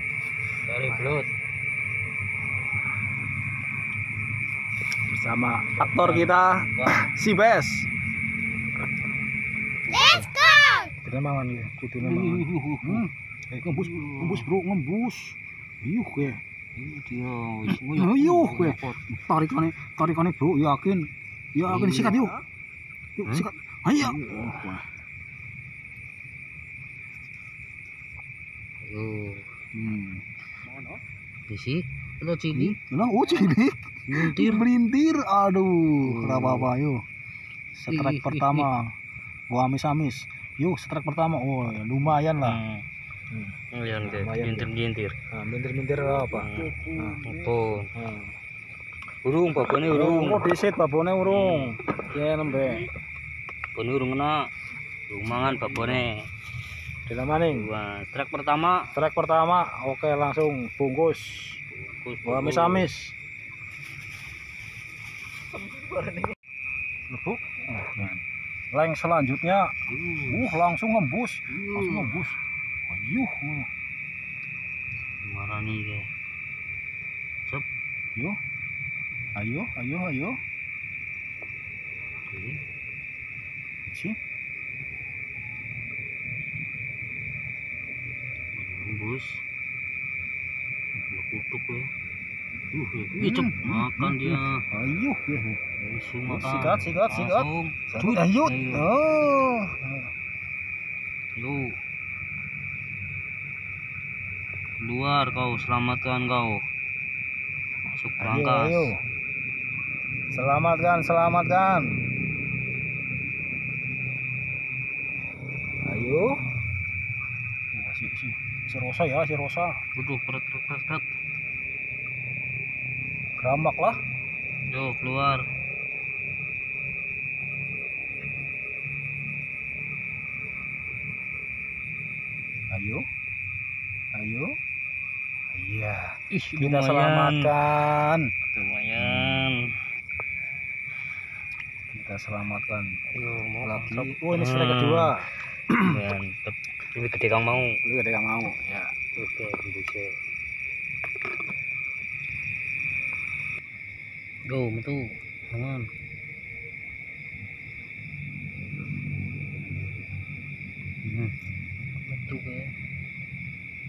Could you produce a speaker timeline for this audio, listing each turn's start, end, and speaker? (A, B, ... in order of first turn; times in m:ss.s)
0:00.6-0:01.3 A
0:00.9-0:01.2 B
0:05.1-0:07.9 B
0:05.8-0:07.1 A
0:09.9-0:10.3 A
0:09.9-0:10.2 B
0:11.0-0:16.4 B
0:12.0-0:13.1 A
0:13.7-0:14.5 A
0:16.8-0:19.0 A
0:17.9-0:22.4 B
0:21.6-0:22.4 A
0:23.2-0:24.9 B
0:23.3-0:24.8 A
0:28.8-0:29.5 A
0:29.7-0:30.9 B
0:31.5-0:32.8 A
0:32.5-0:37.0 B
0:34.1-0:34.7 A
0:36.0-0:36.7 A
0:37.8-0:38.9 B
0:37.9-0:38.7 A
0:39.5-0:42.6 B
0:42.4-0:42.9 A
0:43.3-0:44.7 B
0:43.7-0:45.2 A
0:45.3-0:48.3 B
0:46.3-0:47.9 A
0:49.2-0:50.4 A
0:49.9-0:52.8 B
0:51.2-0:51.8 A
0:53.8-0:54.5 A
0:55.1-0:56.3 A
0:55.4-0:56.0 B
0:57.1-0:57.7 B
0:57.5-0:58.9 A
0:58.9-1:01.6 B
1:01.7-1:02.9 A
1:02.2-1:03.2 B
1:07.1-1:13.7 B
1:09.9-1:10.6 A
1:11.5-1:12.3 A
1:15.0-1:16.1 A
1:19.4-1:20.4 B
1:22.3-1:22.6 A
1:23.9-1:24.2 B
1:28.5-1:29.4 A
1:31.0-1:31.9 A
1:32.7-1:34.7 A
1:33.1-1:35.6 B
1:35.8-1:38.9 A
1:36.3-1:40.1 B
1:41.4-1:41.8 A
1:44.8-1:46.6 A
1:47.9-1:48.9 A
1:48.2-1:49.0 B
1:50.3-1:52.0 B
1:55.8-1:56.4 B
1:57.7-1:59.8 B
2:00.0-2:01.1 A
2:03.4-2:04.0 B
2:04.7-2:05.5 A
2:12.7-2:13.0 B
2:14.1-2:14.6 B
2:15.5-2:18.3 B
2:16.3-2:17.7 A
2:18.5-2:19.8 A
2:19.0-2:19.5 B
2:21.9-2:23.0 B
2:23.1-2:27.8 A
2:23.6-2:26.0 B
2:27.8-2:28.9 B
2:29.2-2:30.2 A
2:34.5-2:35.9 A
2:41.0-2:41.4 A
2:42.0-2:42.8 A